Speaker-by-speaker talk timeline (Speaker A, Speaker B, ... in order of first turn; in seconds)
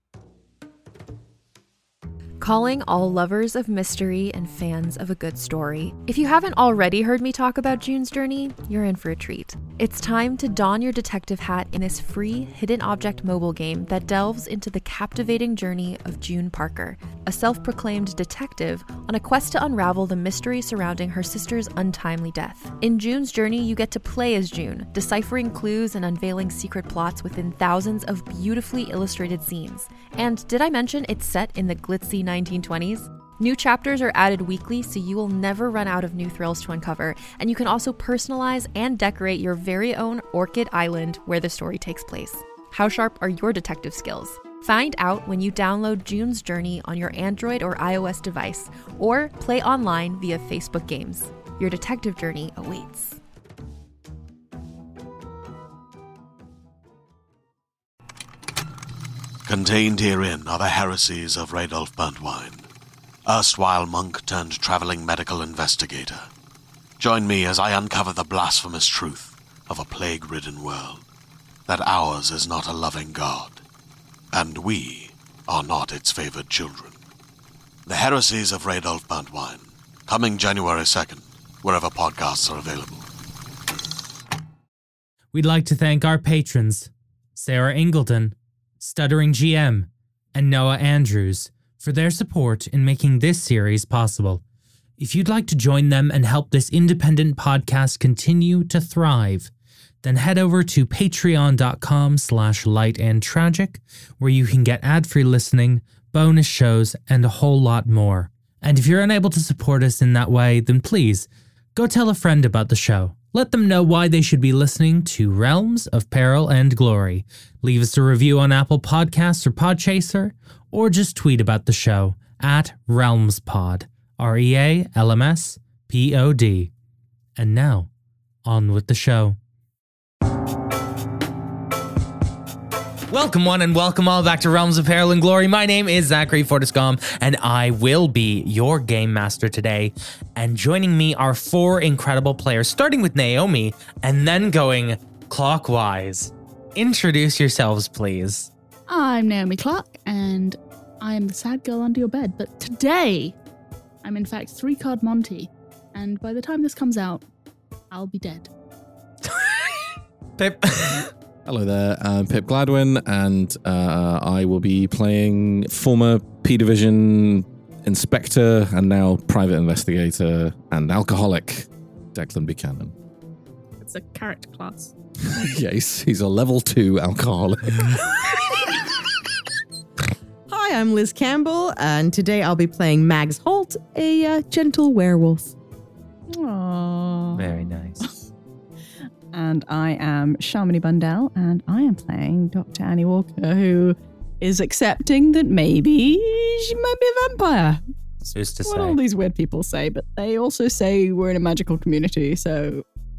Speaker A: 2.4-53.2
Speaker B: 59.5-62.7, 63.2-66.3, 67.0-71.0, 71.7-73.6, 74.3-77.0, 77.9-83.0
Speaker C: 85.3-94.4, 95.0-99.5, 100.0-126.7, 127.4-127.9, 128.4-129.4, 133.1-148.5, 160.4-161.1, 187.3-188.1, 198.2-199.0
Speaker D: 148.9-153.3, 154.0-157.2, 157.9-158.5, 173.8-174.9
Speaker E: 161.5-172.9, 175.2-178.1
Speaker F: 180.5-185.6
Speaker G: 186.3-188.1, 189.3-197.8, 198.7-202.8